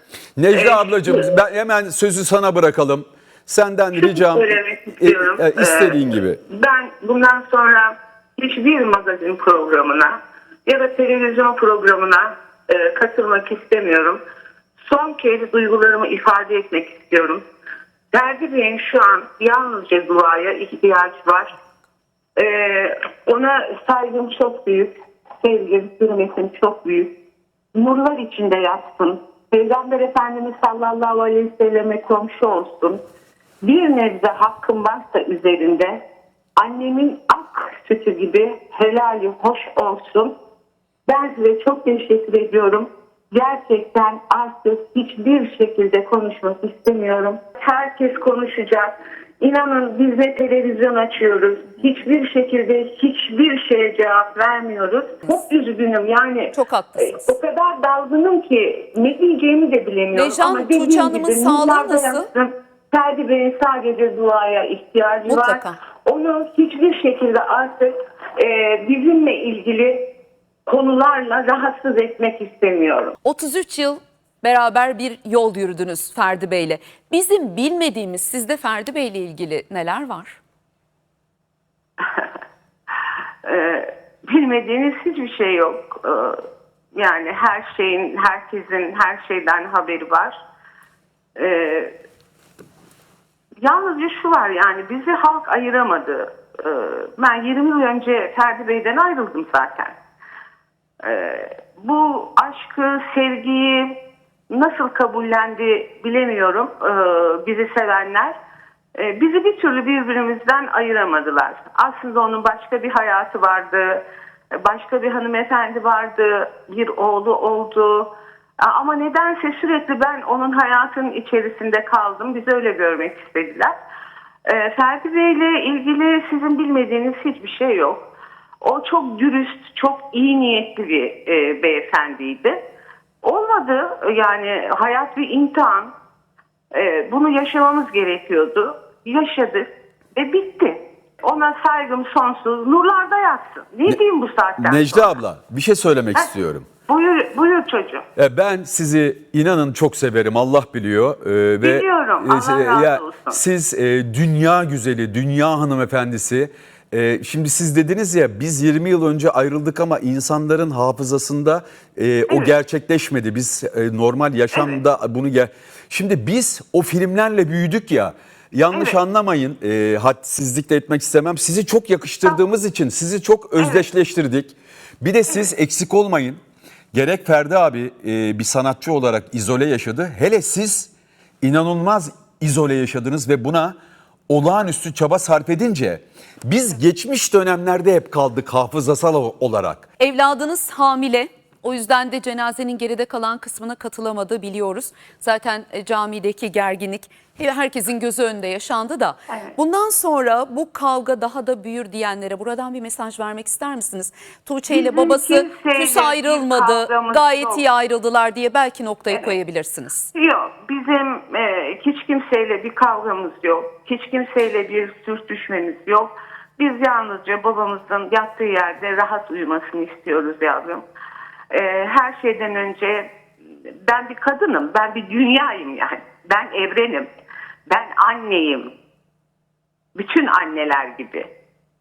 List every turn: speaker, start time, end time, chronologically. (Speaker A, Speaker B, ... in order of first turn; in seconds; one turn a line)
Speaker A: 0.4-6.4
Speaker B: 0.5-1.3
Speaker B: 3.9-10.1
Speaker B: 10.7-14.2
Speaker B: 14.8-17.4
Speaker B: 18.1-21.5
Speaker B: 22.4-27.1
Speaker B: 27.8-33.0
Speaker B: 33.6-36.0
Speaker B: 36.6-40.3
Speaker B: 41.1-70.0
Speaker C: 56.5-57.3
Speaker C: 60.1-62.3
Speaker C: 65.3-65.8
Speaker B: 70.7-73.1
Speaker C: 73.2-80.4
Speaker B: 82.0-82.2
Speaker B: 83.4-86.4
Speaker B: 86.9-90.4
Speaker B: 91.4-91.9
Speaker B: 93.6-99.9
Speaker B: 101.0-104.0
Speaker B: 104.5-108.3
Speaker B: 109.0-114.0
Speaker B: 114.6-118.1
Speaker B: 118.6-123.7
Speaker B: 124.5-128.1
Speaker B: 128.6-132.6
Speaker B: 133.2-135.9
Speaker B: 136.7-145.1
Speaker A: 144.6-146.7
Speaker B: 146.9-148.1
Speaker A: 148.2-176.4
Speaker B: 151.6-153.4
Speaker B: 162.3-162.5
Speaker B: 164.5-164.8
Speaker B: 168.7-169.0
Speaker B: 173.6-173.9
Speaker A: 176.9-180.9
Speaker A: 181.4-183.8
Speaker A: 184.3-189.9
Speaker C: 190.0-210.1
Speaker B: 199.3-199.6
Speaker B: 204.7-207.7
Speaker B: 209.1-209.4
Speaker B: 210.1-220.8
Speaker B: 221.5-223.1
Speaker B: 223.8-227.1
Speaker B: 227.7-228.7
Speaker B: 230.0-231.3